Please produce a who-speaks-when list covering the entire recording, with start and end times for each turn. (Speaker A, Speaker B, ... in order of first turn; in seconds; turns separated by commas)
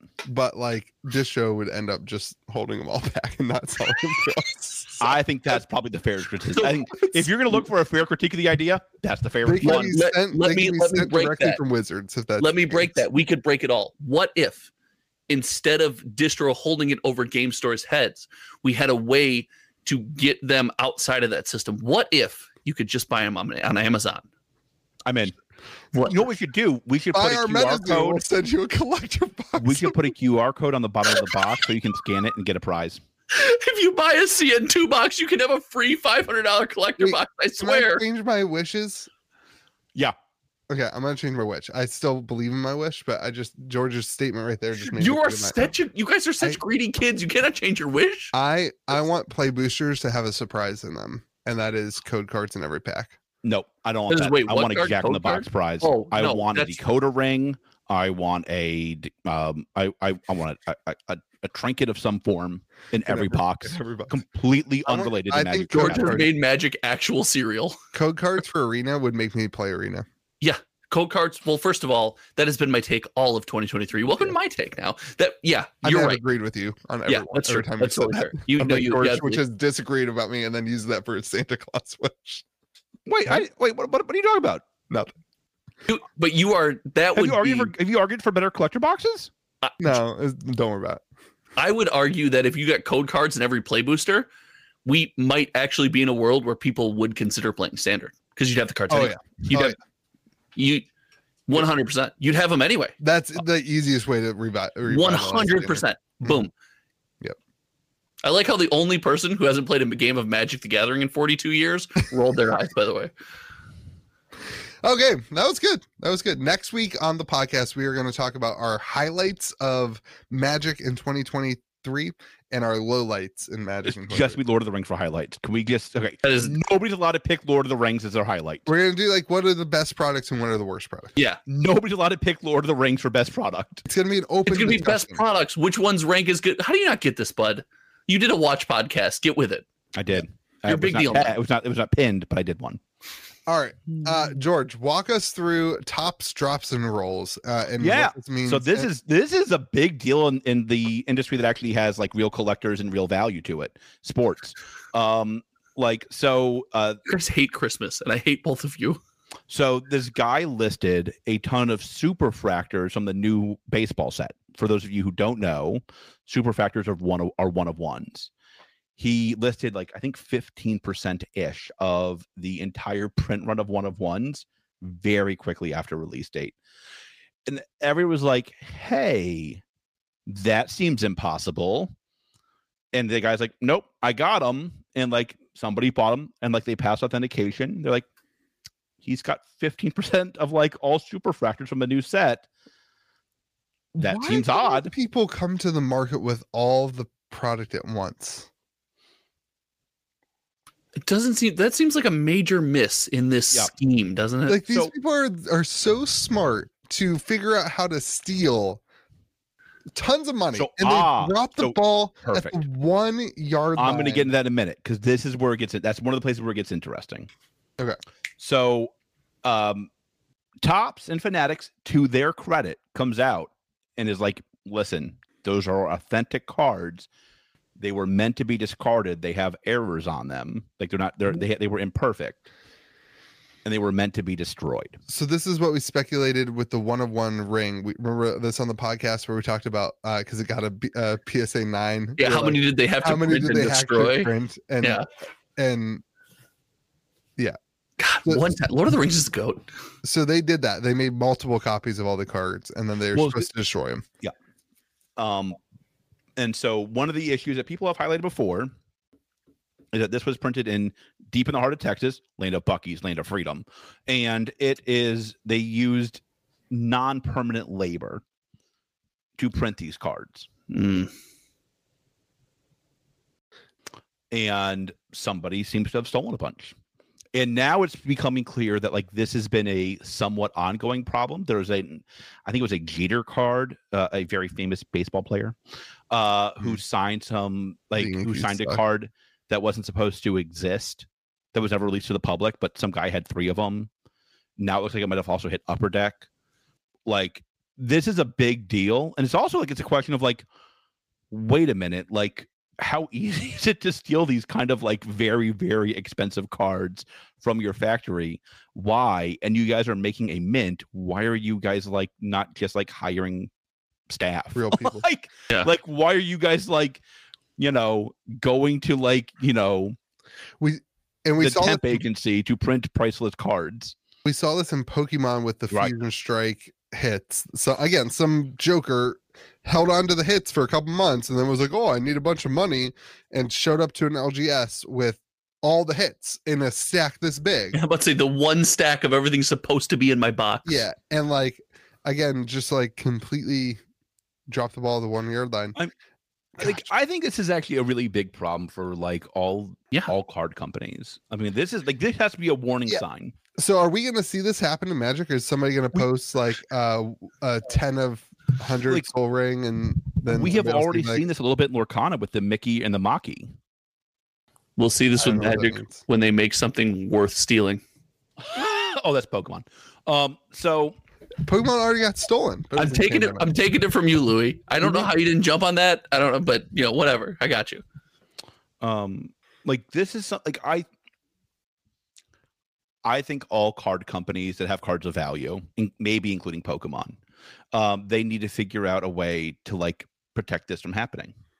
Speaker A: 0.2-5.1, Speaker B: 5.0-10.0, Speaker A: 9.4-12.9, Speaker C: 9.6-11.6, Speaker C: 12.4-14.7, Speaker C: 15.3-24.2, Speaker B: 25.1-25.3, Speaker C: 25.9-26.2, Speaker B: 26.0-28.2, Speaker A: 27.1-30.1, Speaker B: 29.6-33.0, Speaker C: 33.3-38.0, Speaker A: 37.0-39.1, Speaker A: 40.7-45.7, Speaker C: 44.9-48.3, Speaker A: 48.3-53.2, Speaker B: 53.4-66.2, Speaker C: 54.1-56.8, Speaker A: 63.1-64.1, Speaker A: 64.8-66.3, Speaker C: 65.7-67.8, Speaker A: 67.9-70.0, Speaker C: 70.4-76.2, Speaker A: 75.8-82.4, Speaker C: 77.1-79.4, Speaker B: 83.1-84.6, Speaker C: 85.9-87.7, Speaker B: 87.1-89.3, Speaker C: 89.6-90.0, Speaker A: 89.8-91.0, Speaker C: 91.6-94.3, Speaker C: 94.8-99.8, Speaker A: 98.9-99.8, Speaker C: 100.5-100.9, Speaker C: 101.5-102.9, Speaker A: 103.0-106.4, Speaker C: 104.9-106.5, Speaker C: 108.2-113.1, Speaker A: 114.8-124.4, Speaker B: 123.8-128.7, Speaker C: 126.2-126.5, Speaker A: 128.7-131.1, Speaker B: 131.5-133.8, Speaker A: 133.8-135.2, Speaker C: 134.4-139.7, Speaker B: 139.9-142.8, Speaker C: 140.6-141.4, Speaker A: 143.5-148.9, Speaker B: 147.8-157.0, Speaker C: 157.1-159.0, Speaker B: 159.5-168.3, Speaker B: 169.0-176.5, Speaker B: 177.4-179.6, Speaker B: 180.3-181.9, Speaker B: 182.9-188.1, Speaker B: 189.0-192.5, Speaker A: 193.9-198.5, Speaker B: 194.0-194.9, Speaker C: 201.0-204.6, Speaker A: 204.5-208.8, Speaker A: 209.9-214.3, Speaker B: 210.6-212.6, Speaker B: 213.8-217.3, Speaker B: 218.4-218.9, Speaker B: 219.4-219.9, Speaker B: 220.6-227.1, Speaker B: 227.8-232.4, Speaker B: 233.6-235.0, Speaker A: 235.1-245.0, Speaker C: 242.2-245.1, Speaker A: 245.6-246.0, Speaker C: 248.0-249.7, Speaker A: 250.0-254.0, Speaker B: 253.1-253.5, Speaker B: 255.2-255.6, Speaker B: 256.4-258.7, Speaker B: 259.9-268.2, Speaker B: 269.4-270.5, Speaker C: 270.7-271.1, Speaker B: 274.3-276.7, Speaker B: 277.3-285.6, Speaker B: 286.1-293.9, Speaker A: 288.0-288.8, Speaker B: 294.6-296.3, Speaker B: 297.1-300.4, Speaker B: 301.3-313.5, Speaker B: 314.1-317.0, Speaker A: 314.5-315.0, Speaker B: 317.6-319.9, Speaker A: 320.6-322.0, Speaker B: 321.4-323.9, Speaker A: 324.2-337.8, Speaker C: 337.7-340.8, Speaker A: 340.6-343.8, Speaker A: 344.5-345.7, Speaker A: 346.6-346.8, Speaker B: 346.6-353.3, Speaker A: 353.6-361.2, Speaker B: 360.3-363.5, Speaker C: 364.8-367.8, Speaker A: 365.2-366.0, Speaker B: 368.4-370.9, Speaker A: 371.4-373.5, Speaker C: 372.8-377.8, Speaker A: 374.8-375.1, Speaker B: 378.8-380.9, Speaker B: 383.0-387.2, Speaker B: 387.7-391.3